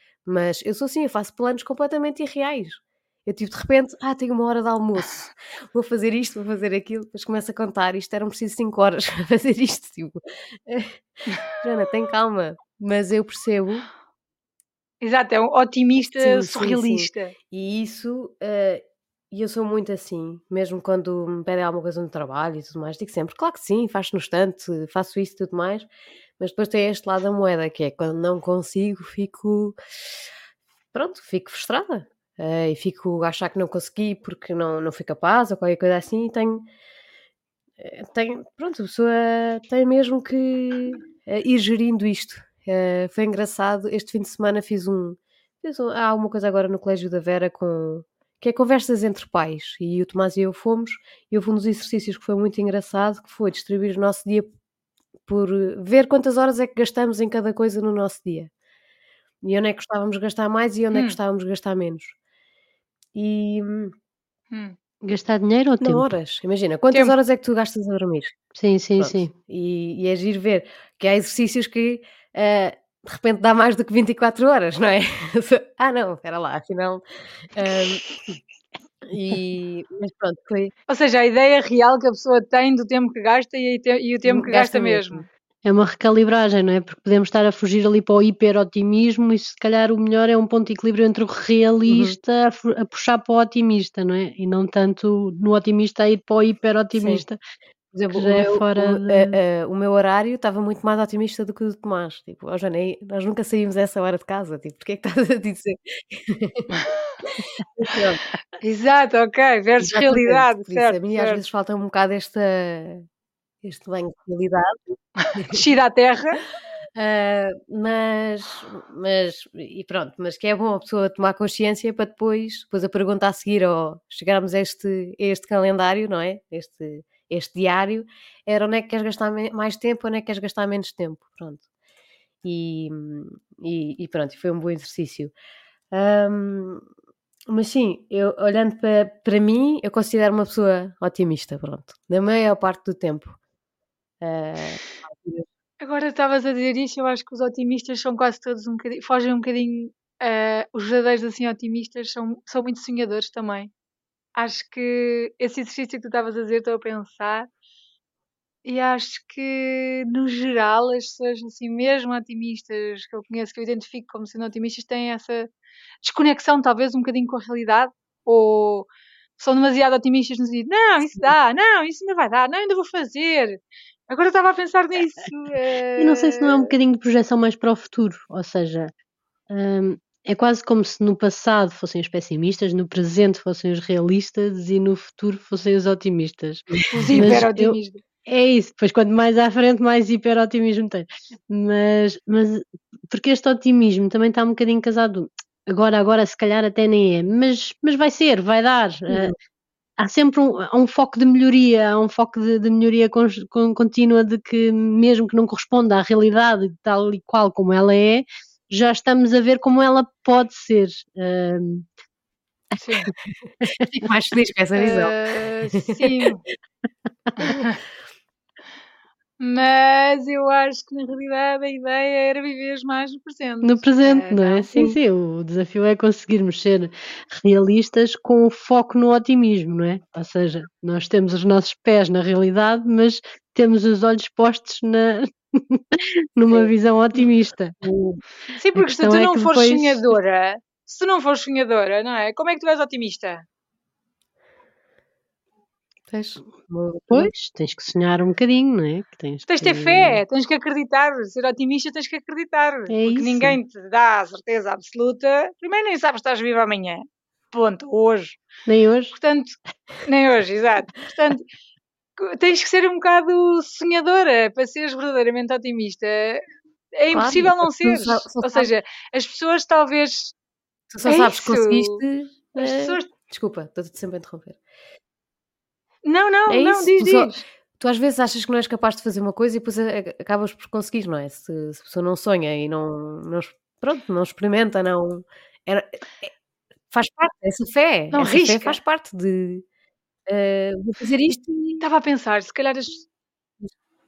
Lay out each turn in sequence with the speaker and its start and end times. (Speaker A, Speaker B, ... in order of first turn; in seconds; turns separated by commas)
Speaker A: 0.3-11.0, Speaker A: 11.5-13.9, Speaker B: 15.0-17.3, Speaker A: 16.2-29.8, Speaker A: 30.9-36.7, Speaker A: 37.8-54.5, Speaker A: 55.3-58.5, Speaker A: 59.4-62.1, Speaker B: 60.9-61.2, Speaker A: 63.1-64.0, Speaker C: 65.0-66.0, Speaker A: 65.8-68.4, Speaker B: 66.9-67.2, Speaker C: 68.5-69.3, Speaker A: 69.0-78.2, Speaker A: 79.1-80.7, Speaker B: 80.9-85.2, Speaker A: 84.3-85.2, Speaker C: 85.6-97.4, Speaker A: 91.9-92.2, Speaker A: 97.0-97.2, Speaker A: 97.9-108.2, Speaker C: 98.1-99.4, Speaker B: 106.9-107.2, Speaker B: 108.6-111.4, Speaker A: 109.8-113.1, Speaker A: 113.6-114.8, Speaker B: 115.2-116.4, Speaker A: 115.4-115.6, Speaker A: 117.0-131.6, Speaker A: 132.4-135.3, Speaker A: 135.9-136.8, Speaker A: 137.5-143.4, Speaker A: 144.2-145.5, Speaker B: 145.8-153.7, Speaker B: 154.4-157.5, Speaker B: 158.7-165.5, Speaker B: 166.0-176.7, Speaker C: 176.0-178.9, Speaker C: 179.5-199.3, Speaker A: 186.7-187.3, Speaker B: 186.9-188.0, Speaker A: 199.1-199.3, Speaker C: 200.0-211.9, Speaker B: 212.7-213.1, Speaker A: 213.3-215.2, Speaker B: 214.8-216.4, Speaker A: 215.7-216.3, Speaker B: 217.4-217.8, Speaker B: 219.4-224.7, Speaker C: 223.6-237.8, Speaker A: 237.8-238.2, Speaker B: 238.5-243.5, Speaker C: 238.8-240.2, Speaker A: 246.1-247.3, Speaker C: 247.1-250.2, Speaker B: 249.5-258.4, Speaker C: 252.9-253.6, Speaker C: 258.7-259.1, Speaker B: 259.1-261.5, Speaker B: 262.2-266.4, Speaker B: 267.0-270.3, Speaker A: 267.1-268.7, Speaker A: 270.9-274.6, Speaker B: 271.1-272.0, Speaker B: 272.6-273.1, Speaker B: 276.1-277.4, Speaker A: 276.5-286.3, Speaker A: 286.9-289.6, Speaker B: 288.1-288.8, Speaker A: 290.3-291.8, Speaker B: 291.8-293.1